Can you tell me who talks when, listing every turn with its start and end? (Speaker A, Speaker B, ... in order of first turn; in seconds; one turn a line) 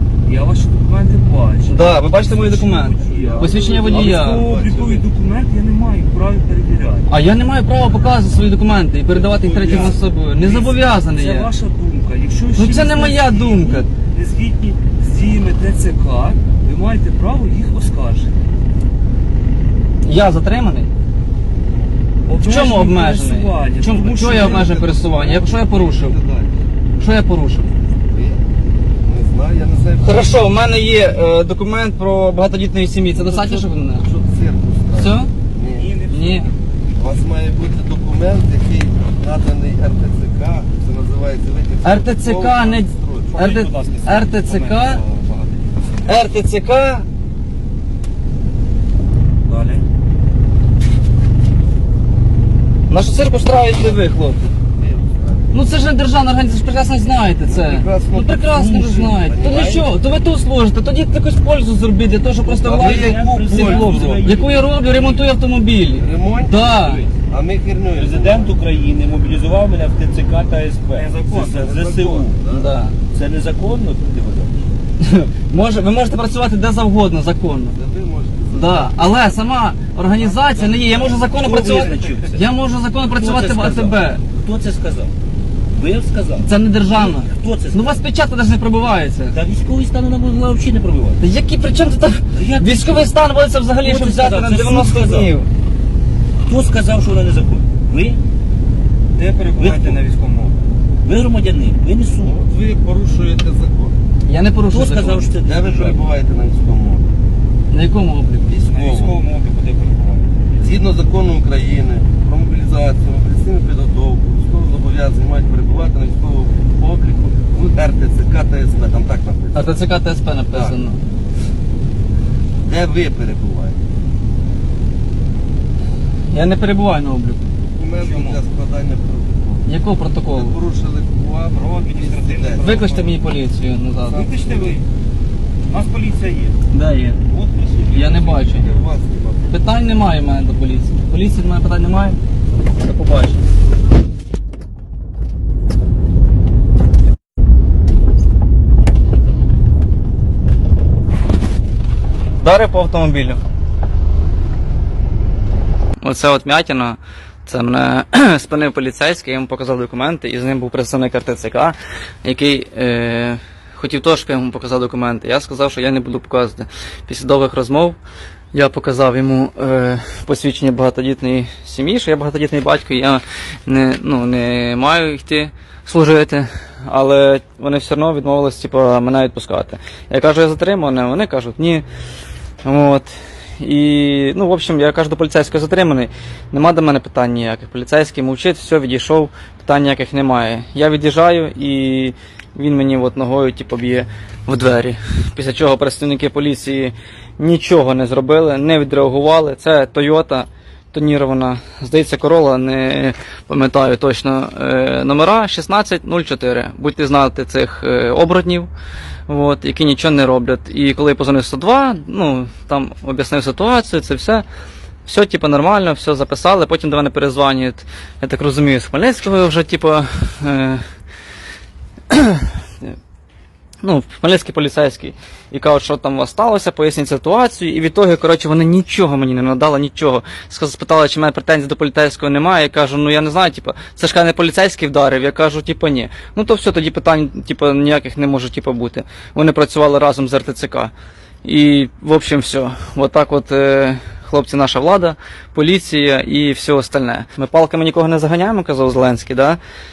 Speaker A: 0.2-7.1
Speaker B: 1.6-4.5
Speaker C: 3.0-5.0
Speaker B: 7.1-11.5
Speaker A: 9.2-18.4
Speaker C: 9.5-10.0
Speaker B: 12.6-13.9
Speaker B: 20.0-20.9
Speaker C: 21.6-21.9
Speaker A: 22.3-24.7
Speaker B: 22.4-26.2
Speaker C: 24.2-26.6
Speaker B: 27.0-27.7
Speaker C: 28.1-28.4
Speaker C: 29.0-30.4
Speaker B: 30.0-34.1
Speaker C: 33.1-36.0
Speaker B: 35.0-35.3
Speaker A: 35.8-36.5
Speaker B: 36.1-36.5
Speaker C: 36.9-43.8
Speaker B: 41.8-45.0
Speaker A: 43.3-45.4
Speaker B: 46.0-47.1
Speaker A: 49.5-49.8
Speaker B: 52.9-54.5
Speaker C: 54.8-55.5
Speaker B: 55.5-67.0
Speaker C: 57.5-59.9
Speaker D: 62.4-64.7
Speaker C: 62.7-64.3
Speaker C: 66.0-66.7
Speaker D: 66.7-67.1
Speaker C: 67.3-68.5
Speaker D: 67.9-72.4
Speaker A: 70.9-71.7
Speaker C: 71.4-72.7
Speaker B: 72.5-73.0
Speaker D: 73.1-74.7
Speaker B: 75.0-77.8
Speaker C: 77.7-79.0
Speaker B: 78.5-84.2
Speaker C: 80.2-81.7
Speaker D: 81.4-82.4
Speaker D: 83.2-85.1
Speaker D: 85.7-88.0
Speaker B: 86.4-89.4
Speaker D: 89.3-91.2
Speaker B: 91.2-95.5
Speaker D: 92.3-93.1
Speaker D: 93.8-95.3
Speaker D: 96.5-98.2
Speaker A: 99.2-100.6
Speaker D: 99.6-100.0
Speaker D: 101.0-102.4
Speaker C: 102.2-104.0
Speaker B: 104.2-105.3
Speaker D: 104.7-106.0
Speaker C: 105.4-107.1
Speaker B: 107.7-108.6
Speaker A: 108.5-110.6
Speaker C: 108.7-109.2
Speaker C: 110.6-119.8
Speaker B: 119.5-121.0
Speaker C: 122.7-123.8
Speaker B: 126.3-127.4
Speaker C: 127.8-129.7
Speaker A: 128.0-128.4
Speaker B: 129.7-130.6
Speaker C: 130.3-133.1
Speaker A: 131.5-132.9
Speaker B: 132.6-134.2
Speaker C: 134.0-134.8
Speaker A: 134.1-134.8
Speaker A: 135.7-136.6
Speaker B: 136.7-137.2
Speaker A: 137.3-138.3
Speaker B: 137.9-138.7
Speaker C: 138.3-139.7
Speaker B: 139.5-142.2
Speaker B: 142.8-143.4
Speaker B: 152.4-153.4
Speaker B: 156.0-168.0
Speaker B: 168.5-181.8
Speaker B: 182.6-208.7
Speaker B: 209.3-214.4
Speaker B: 215.1-220.8
Speaker B: 222.1-222.6
Speaker B: 223.8-240.9
Speaker B: 241.4-249.6